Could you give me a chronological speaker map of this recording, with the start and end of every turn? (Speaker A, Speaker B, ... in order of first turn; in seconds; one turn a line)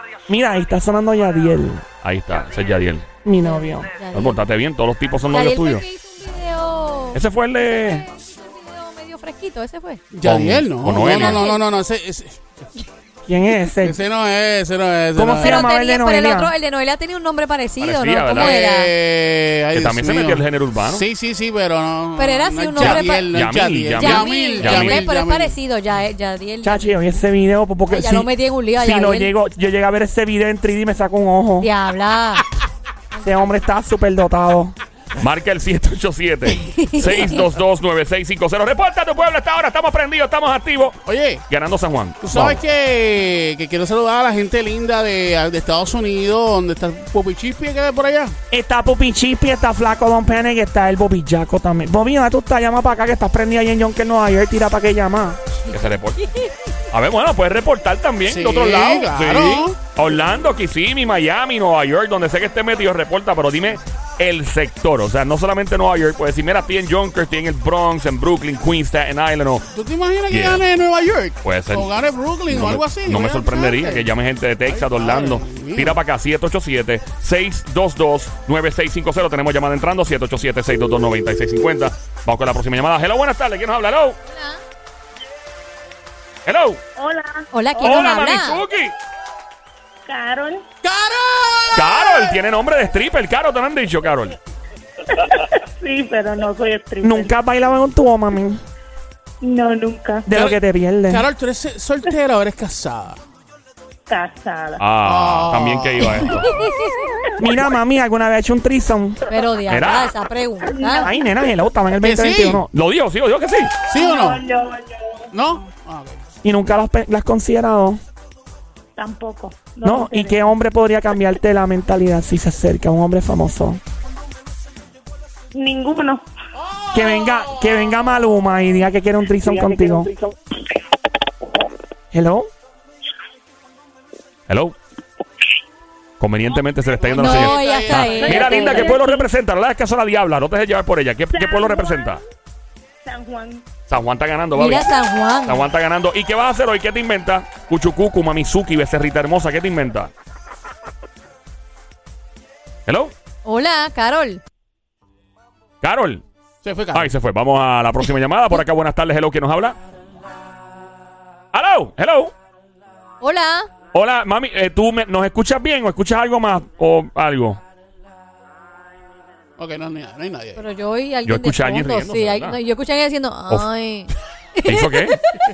Speaker A: 0.3-1.8
Speaker B: 2.0-3.1
Speaker A: 3.2-3.9
Speaker C: 3.4-4.4
Speaker B: 4.1-5.8
Speaker C: 5.3-10.0
Speaker B: 7.1-8.0
Speaker D: 10.1-12.4
Speaker B: 10.2-11.5
Speaker C: 11.0-11.6
Speaker A: 13.3-14.0
Speaker D: 13.8-15.7
Speaker A: 15.1-16.5
Speaker C: 15.3-18.9
Speaker B: 17.8-18.6
Speaker D: 18.3-25.6
Speaker B: 19.7-21.0
Speaker C: 22.2-23.3
Speaker B: 22.8-25.1
Speaker C: 23.9-26.9
Speaker A: 26.6-31.7
Speaker C: 27.9-29.3
Speaker C: 31.6-32.4
Speaker A: 33.2-34.8
Speaker B: 35.2-42.6
Speaker C: 36.5-37.4
Speaker D: 41.0-41.4
Speaker D: 42.2-48.3
Speaker A: 48.5-55.4
Speaker B: 55.7-56.2
Speaker B: 56.9-69.7
Speaker D: 58.2-59.8
Speaker D: 69.7-74.1
Speaker B: 70.3-70.6
Speaker B: 71.4-71.9
Speaker B: 72.5-84.2
Speaker D: 74.7-76.0
Speaker C: 84.3-84.6
Speaker B: 86.5-86.8
Speaker E: 87.0-87.5
Speaker C: 87.5-88.6
Speaker B: 87.8-88.9
Speaker E: 90.0-90.7
Speaker D: 90.8-92.1
Speaker B: 91.7-94.3
Speaker E: 95.1-97.3
Speaker A: 97.0-98.6
Speaker E: 99.4-100.3
Speaker A: 100.2-101.3
Speaker D: 100.3-103.2
Speaker E: 104.1-104.9
Speaker B: 104.8-106.6
Speaker D: 105.0-106.3
Speaker A: 107.4-109.2
Speaker C: 109.3-111.1
Speaker B: 109.7-110.1
Speaker E: 110.8-111.1
Speaker A: 111.0-112.7
Speaker D: 112.0-112.6
Speaker B: 112.7-113.7
Speaker D: 113.9-114.4
Speaker E: 113.9-115.1
Speaker D: 115.3-116.2
Speaker A: 116.4-118.0
Speaker E: 119.0-120.4
Speaker A: 119.8-123.8
Speaker E: 125.5-126.2
Speaker D: 126.6-127.5
Speaker A: 126.9-130.1
Speaker A: 132.1-132.5
Speaker B: 134.5-134.7
Speaker B: 136.2-142.2
Speaker D: 137.0-138.9
Speaker C: 137.1-139.2
Speaker E: 141.3-142.2
Speaker E: 143.0-143.7
Speaker B: 143.9-144.9
Speaker C: 144.5-145.6
Speaker B: 145.4-150.1
Speaker B: 152.9-153.1
Speaker C: 153.4-154.4
Speaker B: 155.8-156.2
Speaker D: 156.6-157.1
Speaker B: 156.9-159.8
Speaker B: 161.5-162.3
Speaker C: 163.2-163.7
Speaker B: 163.9-167.6
Speaker D: 169.6-170.6
Speaker C: 170.6-175.2
Speaker B: 171.2-172.6
Speaker B: 174.6-175.2